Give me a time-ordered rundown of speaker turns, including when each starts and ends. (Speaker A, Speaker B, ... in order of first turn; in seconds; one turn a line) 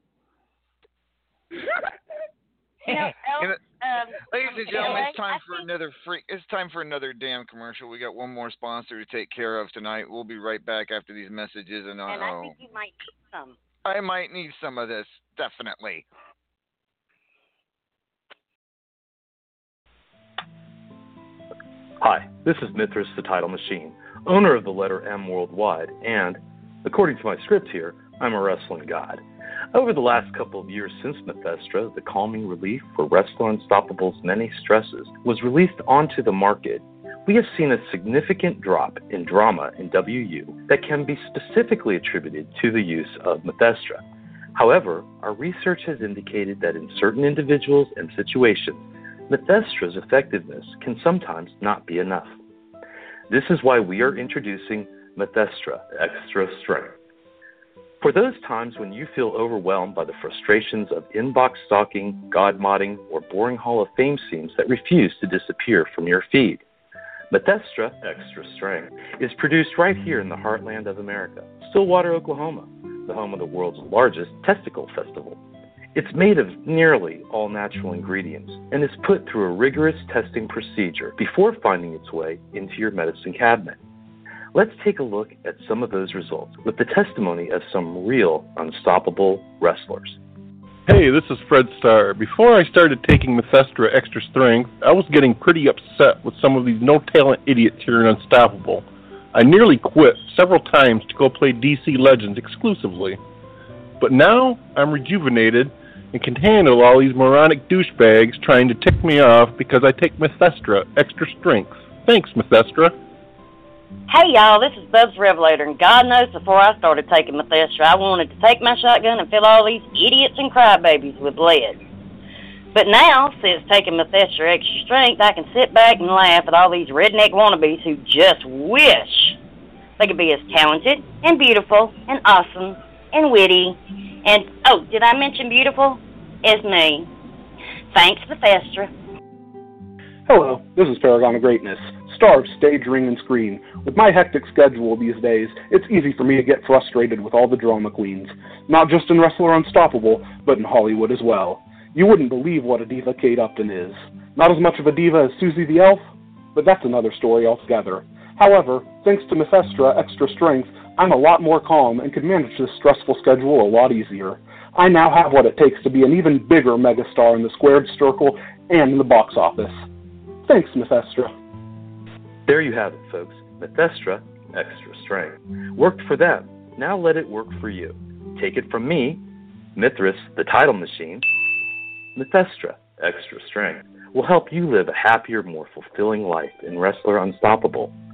Speaker A: 2.9-5.7
Speaker B: 4.2-12.6
Speaker A: 12.1-13.6
Speaker B: 13.8-16.1
Speaker C: 22.0-52.4
Speaker C: 53.3-57.0
Speaker C: 58.0-66.6
Speaker C: 67.3-75.4
Speaker C: 75.9-83.8
Speaker C: 84.5-90.2
Speaker D: 90.8-103.2
Speaker D: 104.0-112.9
Speaker A: 114.1-121.8
Speaker A: 122.7-129.4
Speaker A: 130.0-137.1
Speaker A: 137.9-138.9
Speaker E: 140.2-169.8
Speaker E: 170.4-171.3
Speaker C: 172.5-179.2
Speaker C: 179.8-181.2
Speaker C: 182.2-187.9